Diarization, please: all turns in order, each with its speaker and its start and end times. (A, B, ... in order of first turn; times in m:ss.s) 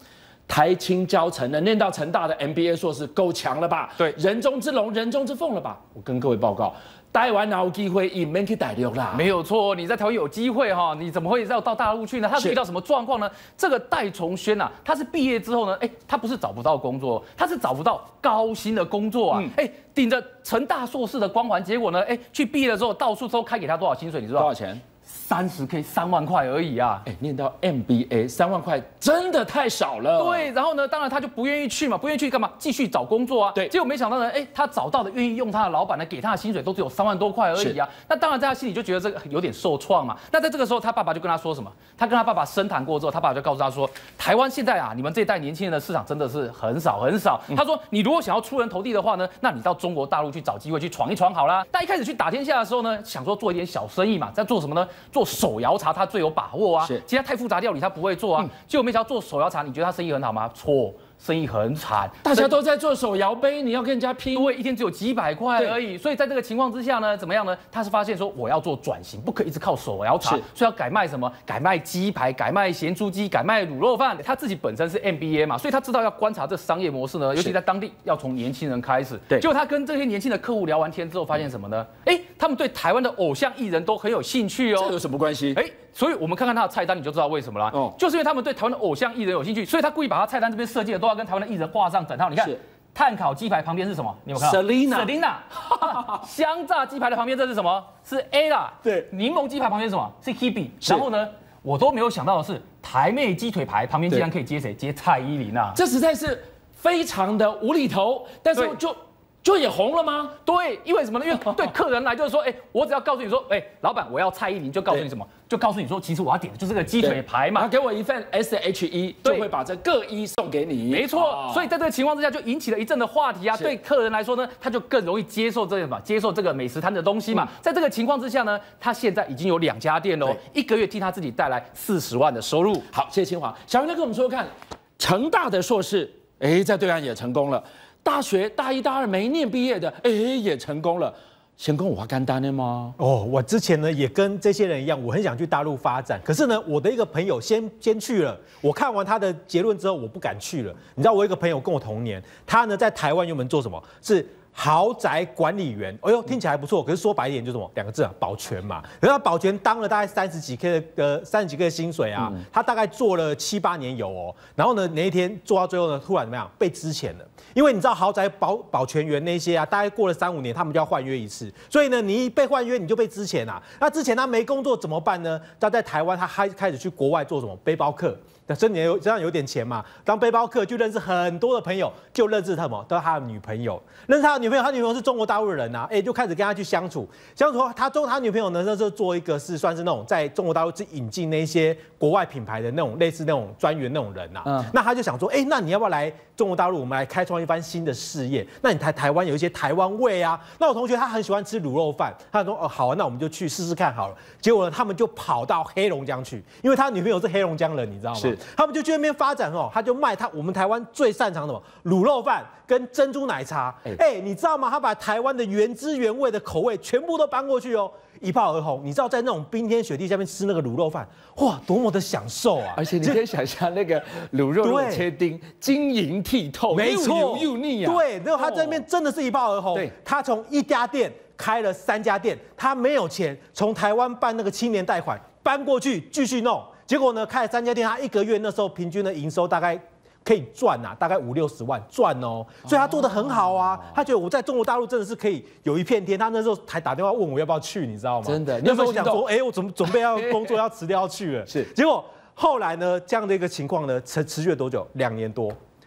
0:00.5-0:09.3 A
0:09.1-0:24.5 B
0:24.4-0:24.8 A
0:25.0-0:27.1 B
0:27.0-0:30.5 A
0:30.2-1:02.5 B
1:02.2-1:04.5 A
1:04.3-1:24.9 B
1:24.8-1:25.6 A
1:25.5-1:45.8 B
1:34.4-1:35.1 A
1:35.7-1:36.2 A
1:45.7-1:50.4 A
1:50.4-1:57.7 B
1:57.0-2:01.7 A
2:00.9-2:12.9 B
2:12.9-2:22.9 A
2:23.0-3:43.2 C
3:14.5-3:14.7 A
3:42.8-3:48.8 A
3:44.6-3:45.0 C
3:46.7-4:15.6 C
4:02.7-4:03.8 A
4:08.2-4:09.2 A
4:09.9-4:10.4 A